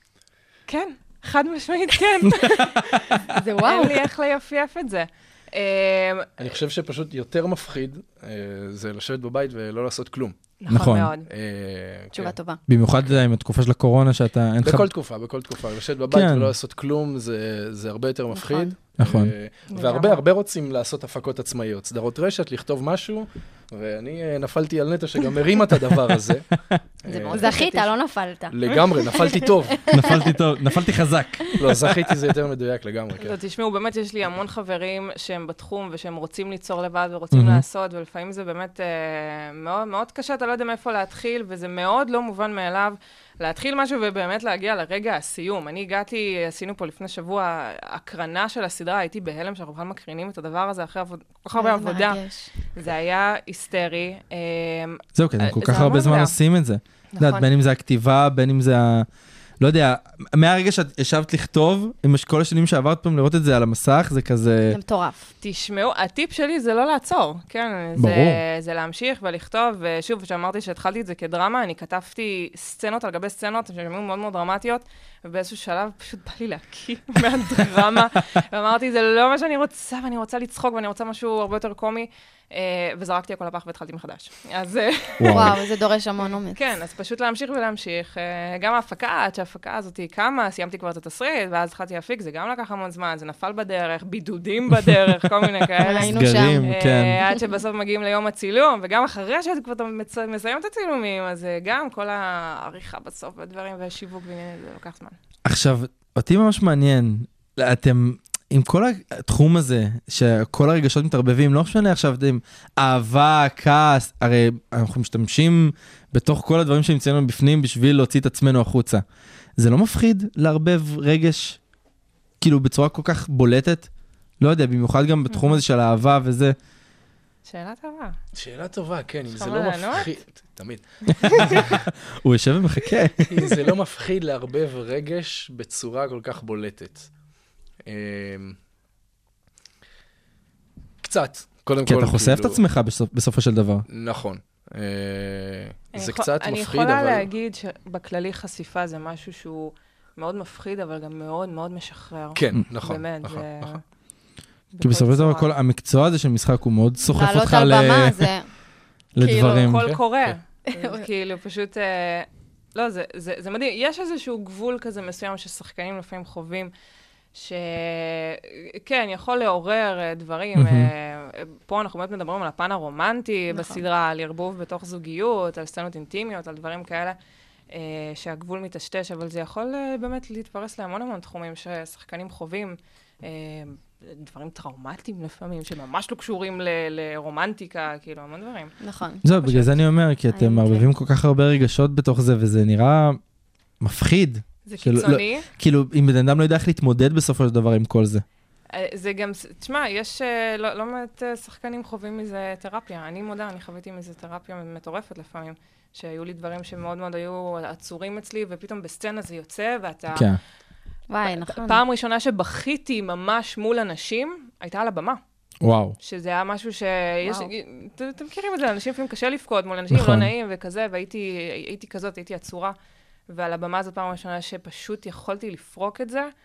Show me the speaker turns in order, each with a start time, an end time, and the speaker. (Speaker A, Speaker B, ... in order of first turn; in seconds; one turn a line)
Speaker A: 0.7-6.5
Speaker B: 3.3-4.0
Speaker C: 6.4-10.5
Speaker A: 10.6-11.3
Speaker D: 10.7-11.1
Speaker C: 11.2-12.3
Speaker B: 12.1-12.6
Speaker D: 12.7-14.9
Speaker C: 14.6-26.5
Speaker D: 16.1-16.5
Speaker B: 18.3-18.7
Speaker D: 19.0-19.3
Speaker A: 19.7-20.2
Speaker C: 27.0-27.5
Speaker A: 27.1-27.9
Speaker B: 27.3-30.3
Speaker C: 28.5-29.9
Speaker D: 29.9-31.9
Speaker C: 31.6-33.4
Speaker A: 33.2-52.2
Speaker D: 37.3-37.6
Speaker B: 51.5-52.5
Speaker A: 52.7-56.3
Speaker D: 55.1-59.1
Speaker A: 57.1-57.5
Speaker D: 59.6-64.8
Speaker B: 64.7-65.3
Speaker A: 65.4-85.5
Speaker D: 68.0-68.4
Speaker D: 85.2-85.5
Speaker B: 85.3-86.6
Speaker A: 86.5-105.2
Speaker B: 95.8-96.7
Speaker D: 96.0-97.2
Speaker D: 105.4-119.0
Speaker D: 119.6-121.6
Speaker D: 122.4-123.9
Speaker D: 124.4-126.5
Speaker A: 125.3-125.6
Speaker A: 127.5-128.2
Speaker C: 128.3-131.7
Speaker A: 129.3-130.1
Speaker D: 131.2-133.5
Speaker A: 131.3-131.6
Speaker C: 133.3-137.1
Speaker C: 137.8-138.6
Speaker C: 141.0-142.6
Speaker D: 141.8-143.8
Speaker C: 143.9-147.3
Speaker A: 145.9-153.8
Speaker C: 152.3-153.8
Speaker A: 154.7-155.5
Speaker D: 154.8-158.3
Speaker B: 157.1-158.5
Speaker D: 159.2-159.9
Speaker B: 159.2-159.7
Speaker A: 159.3-166.7
Speaker C: 159.8-160.3
Speaker B: 160.7-161.0
Speaker A: 167.3-177.2
Speaker D: 170.5-170.9
Speaker B: 173.5-173.8
Speaker A: 177.7-188.7
Speaker B: 188.8-189.2
Speaker D: 189.2-193.2
Speaker A: 189.4-189.8
Speaker B: 190.3-190.9
Speaker D: 193.8-198.2
Speaker A: 194.7-195.5
Speaker A: 198.7-210.3
Speaker D: 210.1-210.4
Speaker B: 211.1-211.8
Speaker A: 211.2-215.2
Speaker D: 215.6-215.9
Speaker A: 216.0-222.7
Speaker B: 217.2-217.5
Speaker D: 219.9-220.3
Speaker A: 223.3-226.3